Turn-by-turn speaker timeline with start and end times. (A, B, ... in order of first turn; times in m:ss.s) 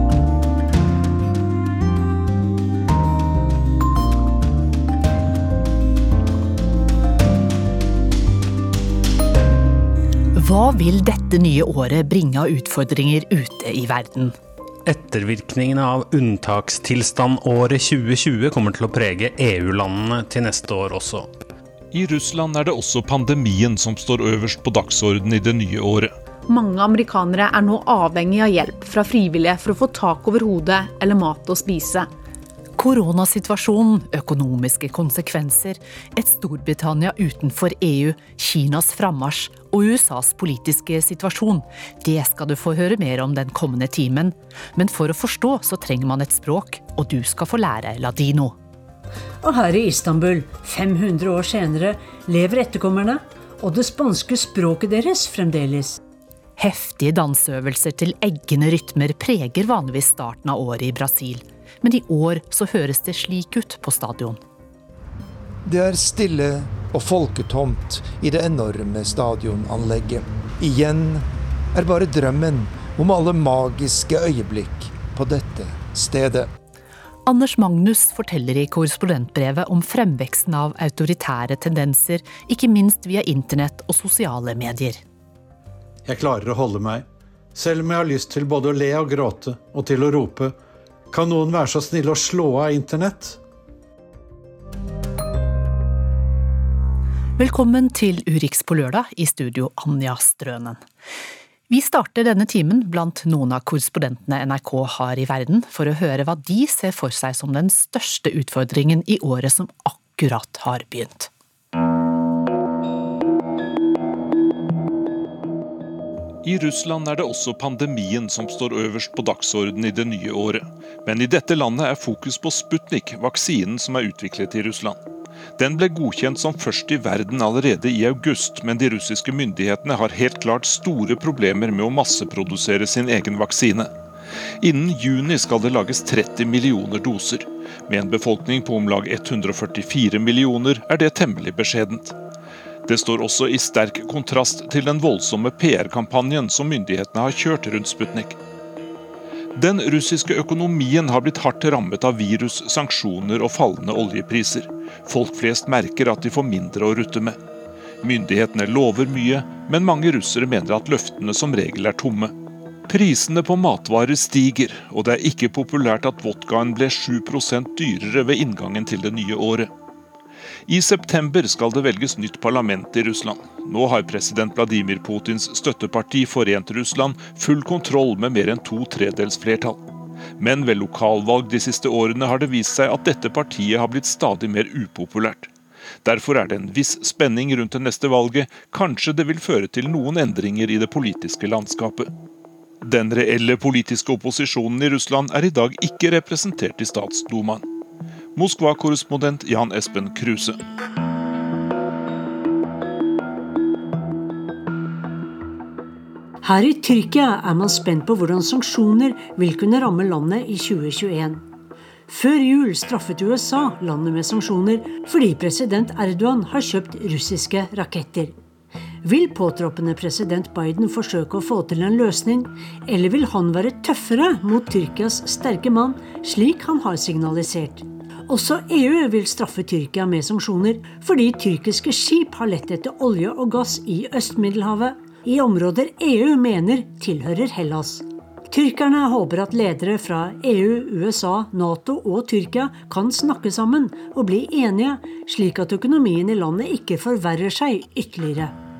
0:10.4-0:14.3 A
0:14.9-0:21.3 B
0:21.9-0:26.1 C
0:26.5-0:32.1 D
0:32.8-0:48.6 A
0:49.4-0:56.0 E
0:56.6-1:04.4 A
1:05.6-1:16.5 F
1:17.3-1:25.0 A
1:26.1-1:30.6 G
1:31.1-1:33.4 G
1:37.4-1:40.8 A
1:41.7-1:51.3 A
1:56.4-2:05.0 C
2:05.6-2:13.9 C
2:14.6-2:22.2 C
2:22.9-2:28.4 C
2:29.6-2:37.4 C
2:38.0-2:42.3 C
2:42.9-2:49.7 C
2:50.7-2:59.8 C
3:00.4-3:05.5 C
3:06.0-3:12.1 C
3:12.8-3:17.7 C
3:18.4-3:20.6 C
3:26.4-3:31.4 E
3:32.1-3:38.4 E
3:39.0-4:08.6 E